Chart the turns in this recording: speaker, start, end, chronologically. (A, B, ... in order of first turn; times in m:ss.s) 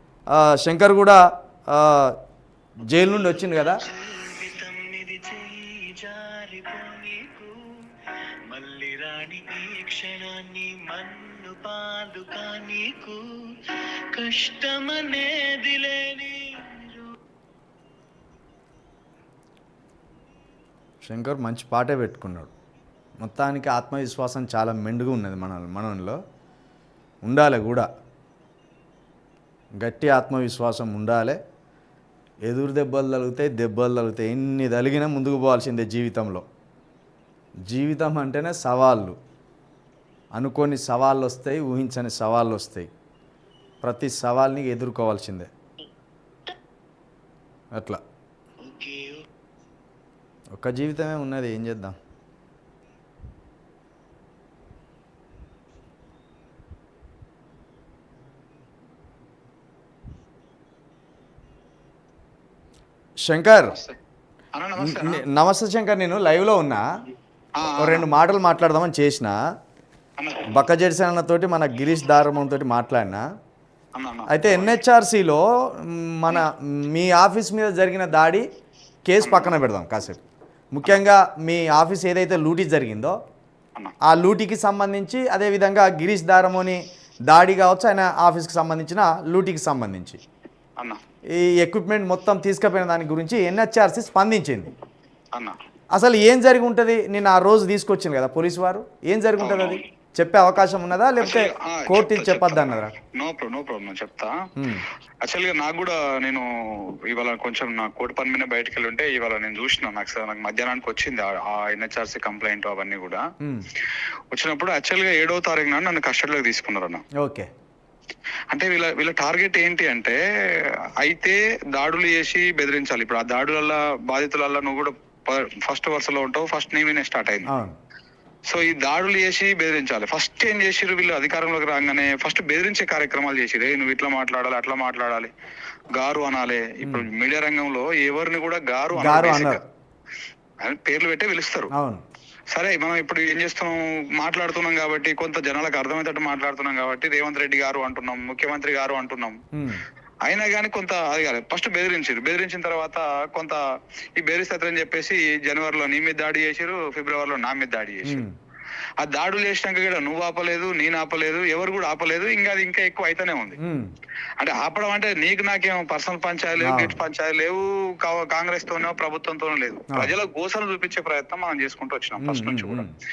0:00.3-0:02.2 A
0:02.9-0:03.8 A
0:03.2-0:07.6 B
0:08.5-0:17.1 B
0:21.0-0:22.5 A
0:23.2-0:26.2 A
0:27.2-0:27.9 A
0:29.8-0:31.4 A
0:32.4-0:36.4 A
0:37.7-0:39.2 A
0:40.3-0:42.9 A
0:43.8-0:45.5 A
0:47.7-0:48.0 A
0:48.6-0:49.2 B
0:50.5-0:52.0 A
1:03.2-1:03.8 A
1:03.7-1:04.0 C
1:04.5-1:05.2 C
1:04.8-1:06.8 A
1:07.6-1:08.1 C
1:07.7-1:09.4 A
1:10.2-1:10.5 C
1:10.5-1:13.2 A
1:13.9-1:14.8 C
1:14.3-1:18.5 A
1:19.1-1:20.2 A
1:19.2-1:19.5 C
1:20.7-1:23.2 A
1:24.0-1:30.2 A
1:31.3-1:34.7 A
1:35.3-1:35.6 C
1:35.9-1:42.9 A
1:39.4-1:39.8 C
1:41.2-1:44.4 C
1:44.6-1:44.8 A
1:45.2-1:53.3 C
1:54.3-1:57.0 C
1:57.2-1:57.5 A
1:58.5-2:07.5 C
2:07.4-2:07.8 A
2:08.5-2:15.3 C
2:15.9-2:19.6 C
2:18.9-2:19.6 A
2:20.6-2:21.7 C
2:21.7-2:22.0 A
2:22.5-2:29.4 C
2:29.5-2:29.8 A
2:30.2-2:33.6 C
2:34.2-2:38.2 C
2:38.0-2:38.3 A
2:39.0-2:43.6 C
2:43.6-2:43.9 A
2:44.4-2:52.9 C
2:46.6-2:47.0 A
2:52.2-2:52.9 A